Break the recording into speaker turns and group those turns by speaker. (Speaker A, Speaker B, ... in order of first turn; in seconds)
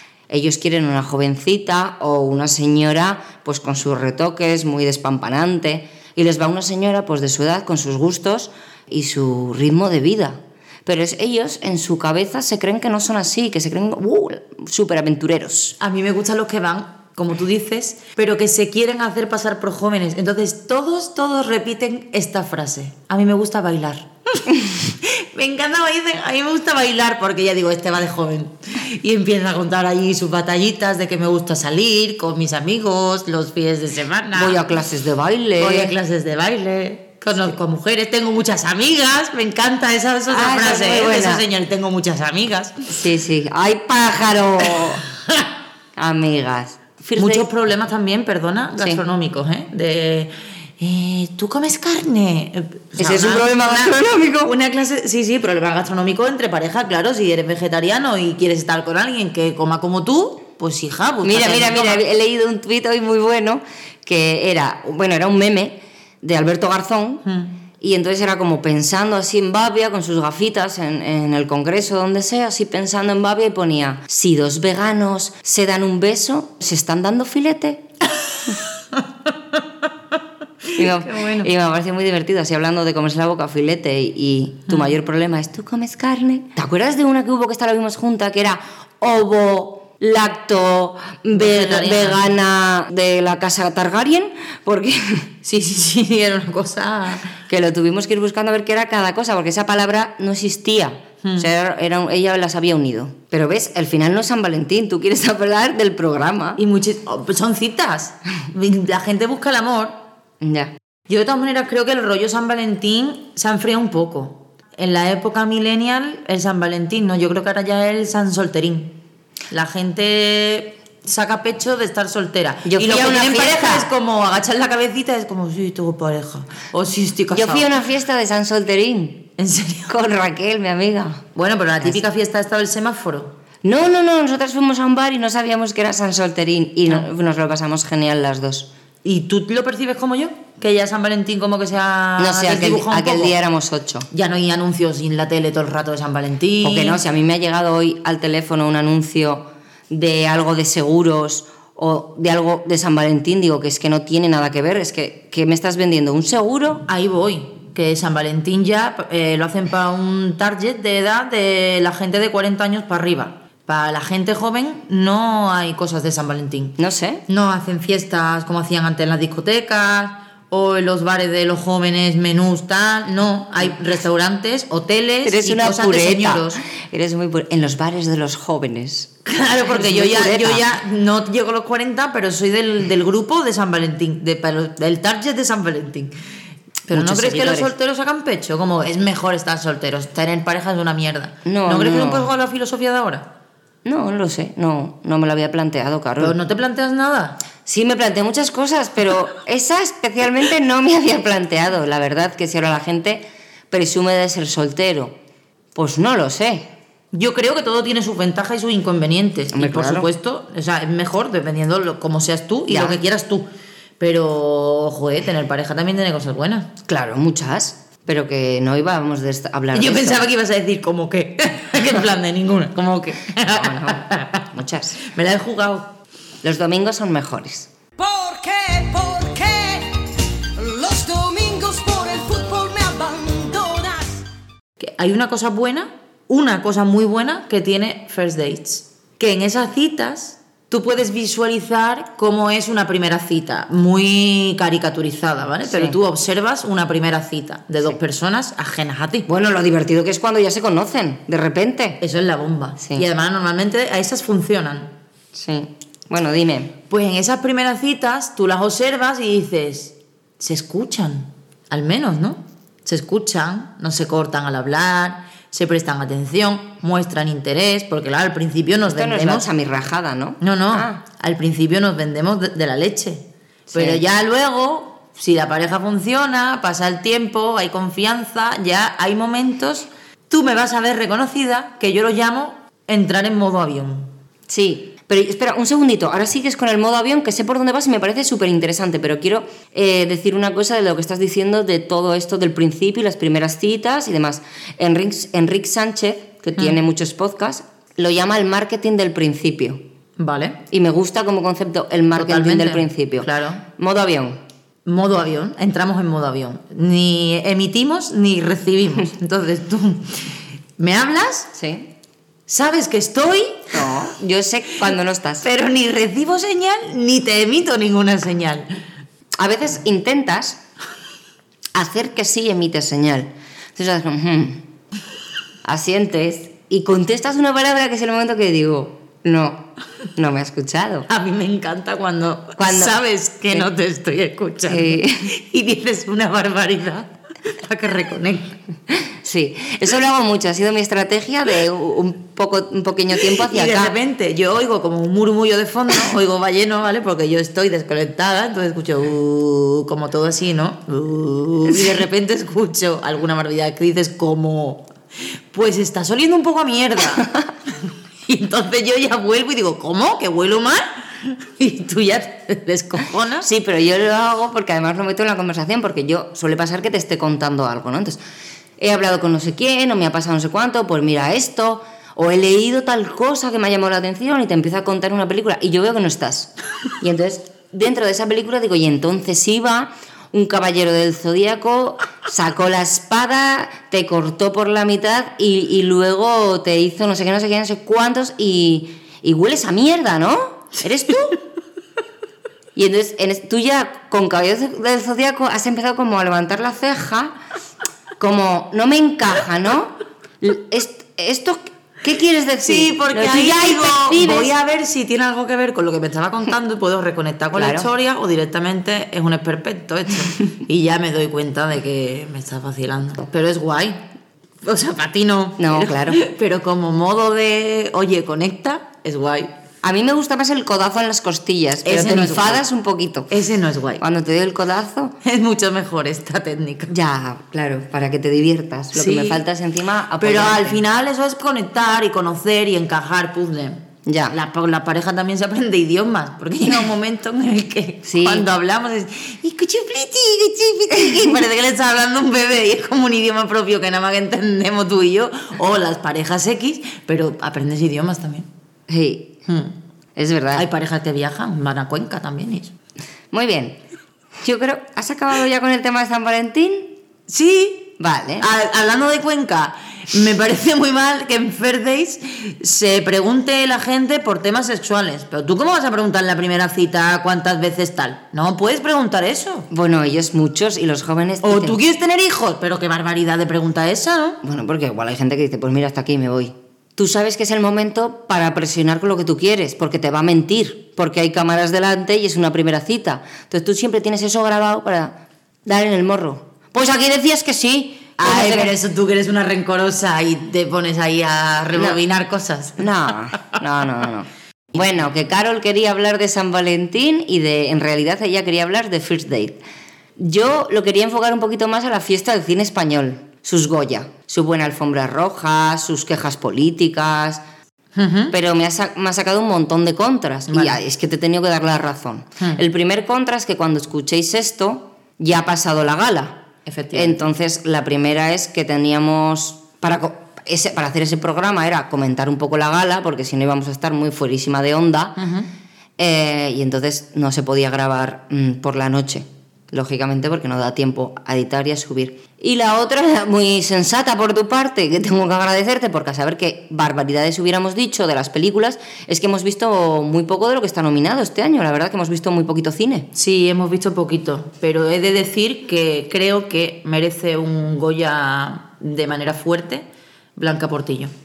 Speaker A: 0.3-15.8, 34.3-35.9, 40.3-41.4, 42.9-45.0, 46.0-47.5, 53.0-54.5, 61.2-67.2, 67.8-77.8, 80.8-95.3, 97.5-106.6, 110.4-110.7, 122.6-123.9, 127.3-129.3, 129.9-131.2, 133.6-138.7, 142.2-144.1, 146.6-156.8, 166.8-167.2, 175.2-179.1, 179.7-180.6, 186.9-187.7, 191.4-192.3, 193.8-196.4, 197.7-205.2, 205.7-206.7, 209.5-210.1, 212.7-213.0, 216.9-220.2, 223.5-225.0, 226.4-227.7, 245.7-245.9, 249.3-252.0, 255.3-256.7, 268.9-271.0, 273.7-274.0, 284.5-299.8, 300.7-304.4, 311.6-311.9, 313.7-315.4, 319.4-320.6, 321.7-324.6, 325.6-331.1, 332.6-332.9, 334.7-335.3, 338.9-343.9, 351.7-352.1, 363.4-368.2, 368.8-391.4, 392.7-397.3, 398.2-404.5, 407.5-407.9, 415.6-416.2, 419.8-423.3, 424.0-425.1, 426.9-430.8, 434.1-434.3, 438.0-438.4, 448.9-449.3, 450.1-450.6, 453.3-453.8, 454.4-456.9, 458.0-458.4, 469.7-471.8, 474.4-488.7, 491.7-492.0, 492.8-499.6, 500.2-507.4, 508.3-525.2, 526.0-543.1
Speaker B: 15.8-34.6, 35.6-42.8, 47.1-62.0, 67.2-67.5, 80.8-81.5, 91.3-92.2, 95.4-97.3, 106.6-110.0, 111.1-118.9, 119.5-127.7, 129.4-129.9, 131.3-133.3, 139.0-143.3, 144.1-147.0, 156.9-166.8, 167.3-176.6, 179.2-186.1, 186.9-193.3, 196.2-197.4, 207.1-213.5, 214.0-216.7, 219.7-224.5, 225.0-225.9, 234.8-249.3, 252.0-254.9, 256.9-269.5, 270.4-284.1, 300.2-300.6, 302.1-303.6, 304.9-311.5, 312.5-313.9, 315.4-318.7, 331.1-338.6, 343.3-354.9, 355.5-357.3, 358.3-363.5, 402.6-414.0, 414.6-419.5, 421.8-422.6, 423.3-424.0, 425.2-426.9, 428.9-429.4, 430.2-448.5, 449.5-449.7, 450.5-452.7, 457.3-469.7, 471.4-474.4, 488.2-492.8, 507.9-508.3, 510.5-510.8, 516.6-517.2, 525.2-525.5, 543.1-551.1
Speaker C: 228.0-230.1, 230.6-234.2